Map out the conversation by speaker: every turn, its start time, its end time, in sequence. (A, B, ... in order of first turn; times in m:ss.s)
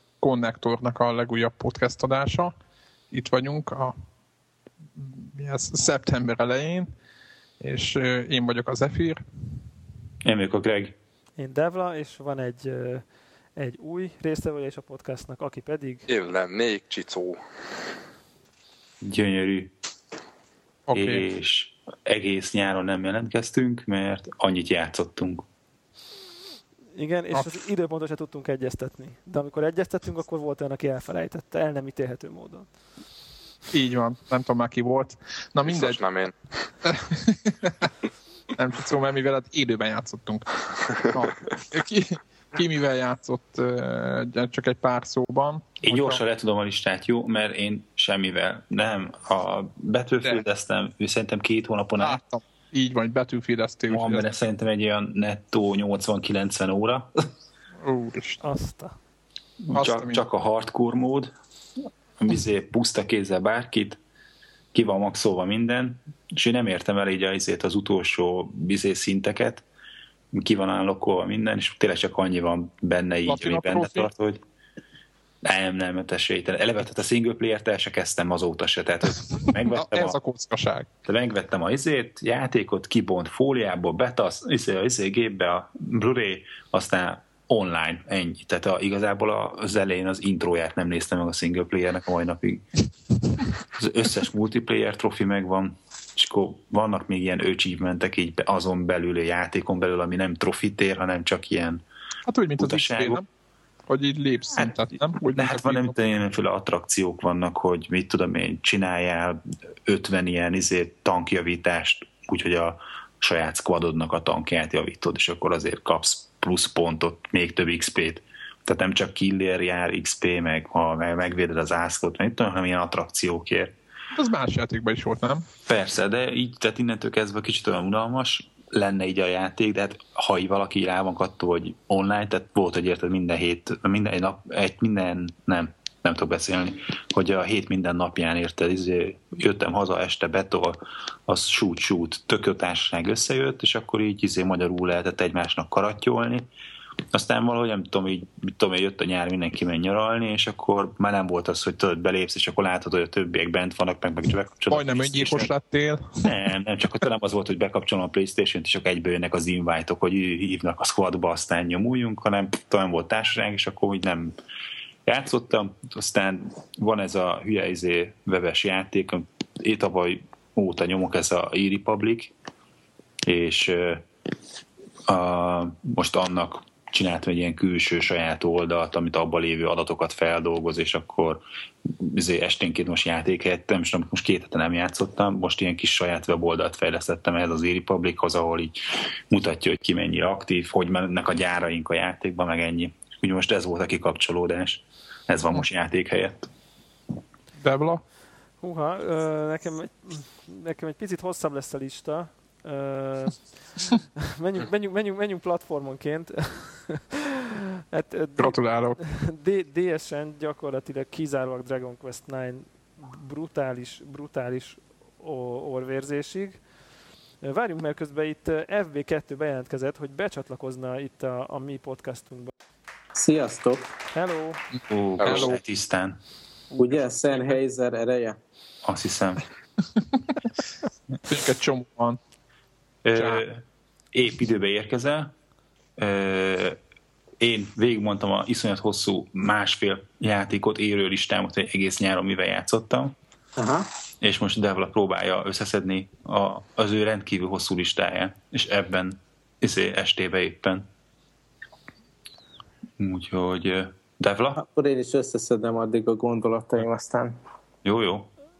0:00.2-0:02.5 A
0:03.1-0:03.9 A
0:05.0-0:06.9 A
0:07.6-0:09.2 A
0:10.2-0:10.9 B
0:11.4-0:16.1 C
0:16.1-0:17.4 D
0:19.0-0:19.7 B
0:20.9-0:21.2 A
0:20.9-0:25.4 B
0:27.0-0:32.7 C
0:33.7-0:36.0 A
0:35.6-0:36.7 D
0:36.8-0:37.9 A
0:38.6-0:46.2 A
0:45.8-0:52.2 B
0:52.0-0:54.3 A
0:53.9-0:57.2 B
0:57.8-0:58.4 A
0:58.4-0:59.0 C
0:59.6-1:01.3 B
0:59.7-1:00.2 A
1:02.2-1:04.0 B
1:04.7-1:09.6 B
1:10.3-1:14.4 B
1:13.2-1:14.1 A
1:15.4-1:20.2 B
1:19.4-1:20.9 A
1:21.0-1:32.8 B
1:33.6-1:41.8 B
1:42.3-1:43.2 A
1:42.6-1:43.2 B
1:43.9-1:45.9 A
1:45.3-2:03.7 B
2:04.1-2:05.4 A
2:05.6-2:26.5 B
2:27.1-2:35.5 B
2:34.7-2:36.4 A
2:36.2-2:44.3 B
2:45.0-2:52.3 B
2:53.2-2:54.1 B
2:55.1-3:16.5 B
3:17.6-3:18.0 A
3:18.6-3:27.0 C
3:27.9-3:36.8 C
3:28.4-3:29.0 A
3:37.4-3:42.5 C
3:43.1-3:43.9 E
3:44.1-3:44.6 C
3:44.7-3:45.6 A
3:44.9-3:46.2 B
3:45.2-3:45.5 D
3:46.7-3:48.4 E
3:48.8-3:49.4 B
3:51.2-3:52.2 A
3:53.0-3:55.3 B
3:53.1-3:53.4 A
3:56.0-3:56.8 B
3:57.4-4:03.1 B
4:03.6-4:03.9 E
4:04.2-4:10.8 B
4:13.0-4:14.6 B
4:14.5-4:17.4 E
4:17.8-4:18.3 B